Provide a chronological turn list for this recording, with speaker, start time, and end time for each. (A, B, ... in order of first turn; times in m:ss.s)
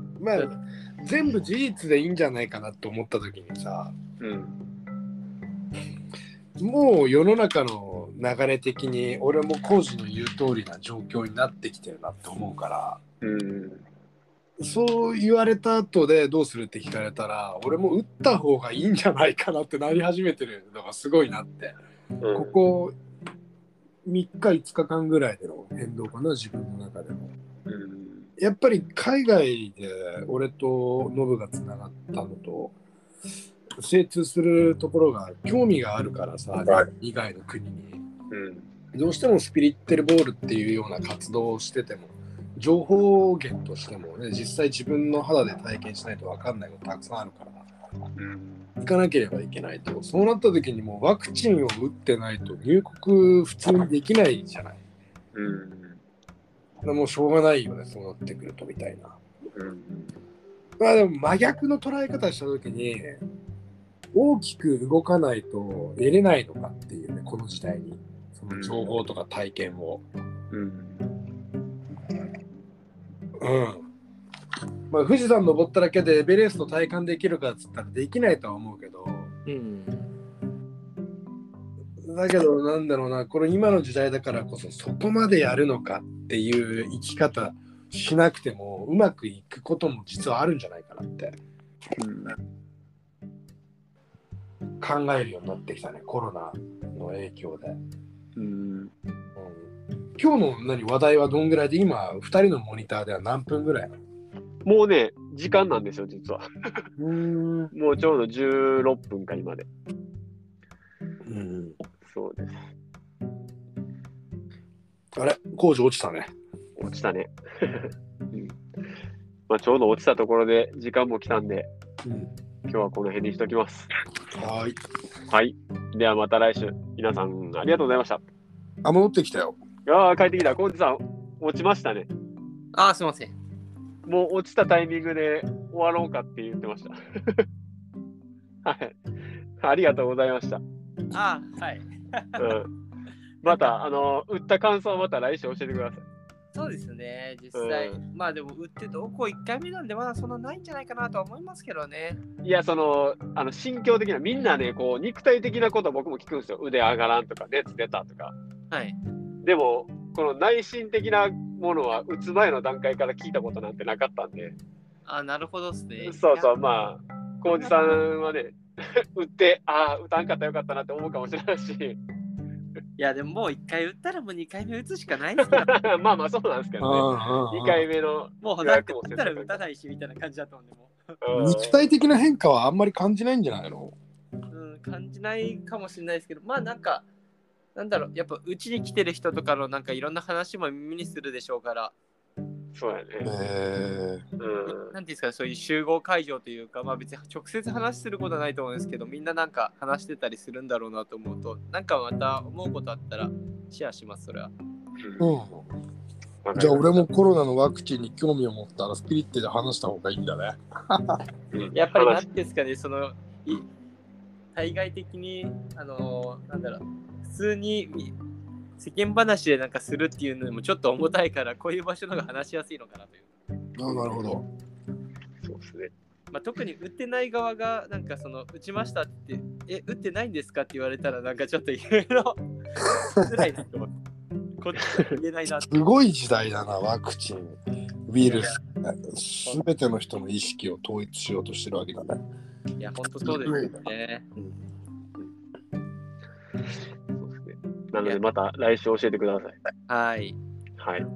0:00.2-0:03.9 A
0:04.2-0:04.6 B
0:06.6-0:13.0 A
0:13.2-0:13.8 B
0:14.6-0:21.8 A
0:22.2-0:22.6 B
0:22.3-0:23.0 A
0:24.1-0:27.3 A
0:27.7-0:28.3 B
0:28.4-0:32.8 A
0:33.8-0:38.0 A
0:38.3-0:38.7 B
0:38.9-0:47.6 A
0:48.2-0:48.7 B
0:48.8-0:54.8 A
0:55.3-0:56.0 B
0:56.8-0:59.2 A
0:59.6-1:00.2 B
1:00.8-1:03.2 A
1:04.1-1:10.0 A
1:08.5-1:08.9 B
1:10.5-1:11.0 B
1:13.4-1:13.8 A
1:14.9-1:19.3 A
1:19.5-1:20.1 C
1:22.0-1:31.4 A
1:32.0-1:32.4 B
1:34.8-1:37.8 A
1:38.4-1:38.9 B
1:39.4-1:43.9 A
1:44.7-1:46.4 B
1:47.0-1:47.7 A
1:47.7-1:49.7 B
1:51.2-1:51.8 A
1:52.0-1:52.7 B
1:55.2-1:56.3 A
1:56.8-1:58.6 B
1:59.5-2:01.7 B
2:02.0-2:02.3 A
2:02.7-2:03.9 B
2:04.4-2:04.8 A
2:05.3-2:08.2 B
2:08.8-2:09.6 A
2:09.9-2:12.1 B
2:12.7-2:13.4 C
2:14.1-2:17.4 B
2:18.6-2:19.0 B
2:19.6-2:20.6 B
2:21.1-2:22.4 C
2:22.4-2:22.7 B
2:23.4-2:26.0 B
2:26.5-2:32.2 C
2:27.5-2:28.0 B
2:32.4-2:38.3 B
2:38.7-2:39.0 C
2:39.4-2:44.6 B
2:45.0-2:46.5 C
2:46.0-2:48.6 B
2:47.5-2:48.0 C
2:49.2-2:52.0 B
2:53.0-2:55.7 C
2:55.4-2:59.6 B
2:56.8-2:57.9 A
2:58.4-3:01.0 C
3:01.2-3:01.9 B
3:01.4-3:04.0 A
3:04.5-3:07.1 C
3:07.8-3:11.9 C
3:12.7-3:13.3 B
3:13.2-3:14.2 A
3:14.4-3:14.9 B
3:14.7-3:24.5 C
3:25.0-3:25.3 B
3:25.2-3:25.7 A
3:26.4-3:27.1 B
3:26.6-3:31.2 A
3:31.5-3:32.3 B
3:31.7-3:33.7 C
3:34.5-3:38.2 C
3:38.8-3:43.3 C
3:43.8-3:44.5 A
3:45.4-3:45.9 B
3:46.3-3:52.4 C
3:53.0-3:54.0 C
3:54.6-3:55.7 C
3:55.5-4:02.2 A
3:58.3-3:58.6 C
4:02.8-4:04.2 C
4:03.2-4:04.6 A
4:07.1-4:09.6 B
4:09.9-4:10.4 C
4:10.8-4:11.1 B